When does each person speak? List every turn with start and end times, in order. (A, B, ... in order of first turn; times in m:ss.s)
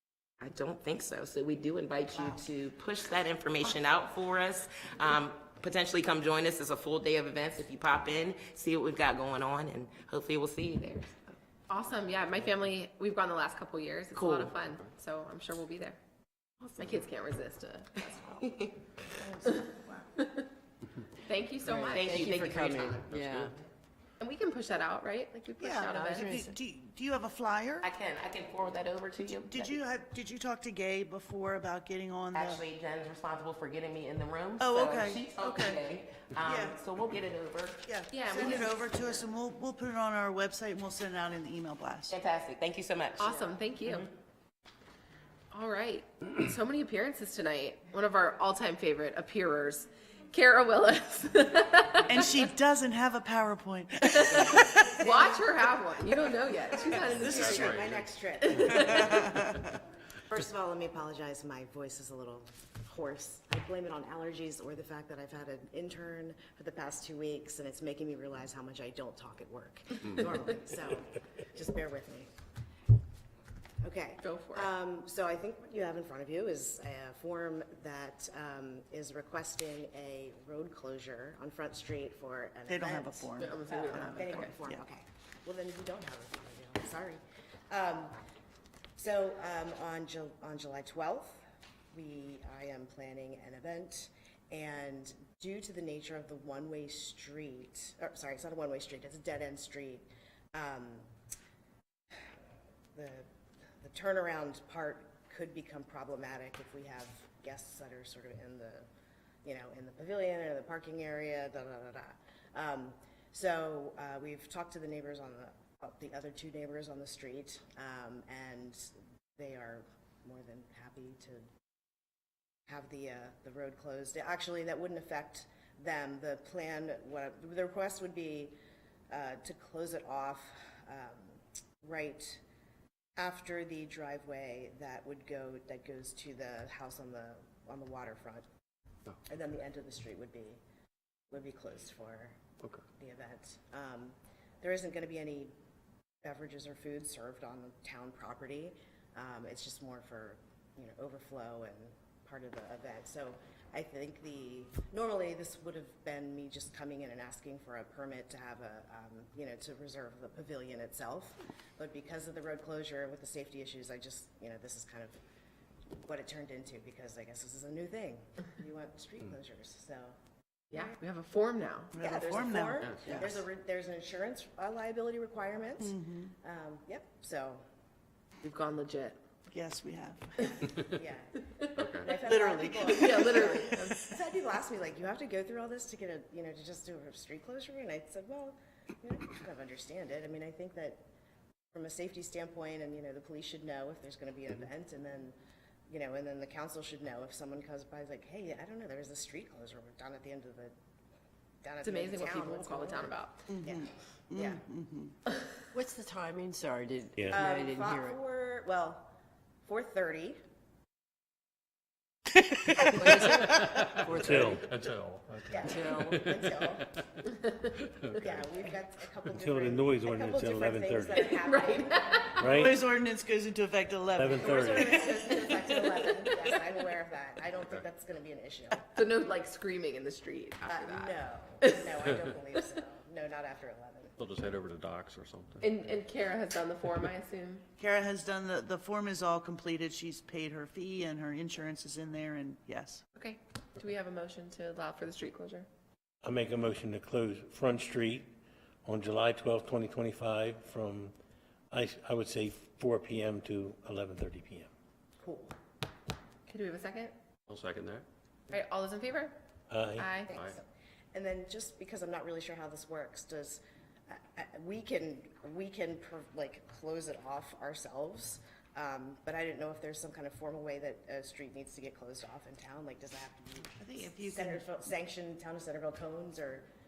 0:00.4-0:11.3 A
0:11.7-0:16.0 B
0:14.2-0:14.6 A
0:16.8-0:18.7 B
0:18.4-0:18.7 A
0:19.4-0:20.5 B
0:21.2-0:22.3 B
0:21.6-0:23.5 C
0:21.9-0:23.6 A
0:23.1-0:23.5 D
0:24.2-0:26.4 B
0:25.6-0:27.9 E
0:25.9-0:26.6 C
0:27.8-0:29.8 A
0:29.4-0:32.6 E
0:32.3-0:38.7 A
0:34.6-0:35.8 E
0:36.4-0:36.8 E
0:37.9-0:42.2 E
0:38.1-0:38.8 B
0:42.1-0:44.0 A
0:43.2-0:44.1 B
0:45.5-0:52.2 B
0:52.1-0:55.0 E
0:54.1-0:57.8 B
0:55.0-0:55.4 F
0:57.0-0:59.1 F
0:57.1-0:57.8 E
0:57.4-0:58.1 D
0:58.4-0:59.4 B
0:58.9-0:59.6 E
1:00.3-1:12.3 F
1:13.8-1:28.1 F
1:14.2-1:14.7 B
1:22.7-1:24.8 E
1:23.4-1:24.5 B
1:29.0-1:41.1 F
1:43.0-1:43.3 F
1:43.8-1:48.9 F
1:49.4-2:01.5 F
2:02.7-2:08.6 F
2:09.1-2:12.4 F
2:13.2-2:18.4 F
2:19.3-2:20.6 F
2:21.3-2:22.4 F
2:23.0-2:25.5 F
2:26.2-2:45.2 F
2:46.0-2:50.2 F
2:50.7-2:51.0 F
2:50.7-2:52.0 B
2:51.9-2:52.9 E
2:52.0-2:57.6 F
2:52.8-2:53.1 D
2:55.8-2:56.3 E
2:58.4-2:59.2 B
2:59.5-3:00.6 E
3:00.4-3:11.0 F
3:01.7-3:02.2 D
3:02.2-3:04.0 E
3:02.9-3:04.1 B
3:11.7-3:15.4 F
3:15.9-3:20.7 F
3:21.6-3:24.6 F
3:21.8-3:23.4 B
3:23.5-3:25.1 E
3:25.7-3:28.2 C
3:27.2-3:27.5 G
3:27.3-3:30.4 F
3:33.0-3:34.5 C
3:33.3-3:33.5 E
3:34.1-3:34.6 G
3:34.4-3:36.3 D
3:35.5-3:37.0 F
3:35.7-3:36.2 C
3:38.0-3:38.3 D
3:38.1-3:42.6 F
3:39.4-3:41.3 G
3:41.3-3:42.4 B
3:42.4-3:42.8 G
3:42.5-3:45.1 E
3:44.2-3:44.9 G
3:44.3-3:48.9 F
3:45.3-3:46.5 B
3:48.9-3:52.0 B
3:50.6-3:54.2 F
3:54.2-3:55.9 D
3:55.6-3:57.6 B
3:57.8-4:03.0 E
4:03.2-4:05.7 B
4:06.2-4:08.3 G
4:08.8-4:11.2 G
4:11.7-4:14.7 G
4:15.2-4:15.5 F
4:16.5-4:17.2 B
4:17.5-4:18.1 D
4:18.5-4:19.4 B
4:19.7-4:20.2 G
4:19.9-4:20.3 B
4:20.3-4:20.6 D
4:20.3-4:36.7 F
4:33.8-4:34.6 E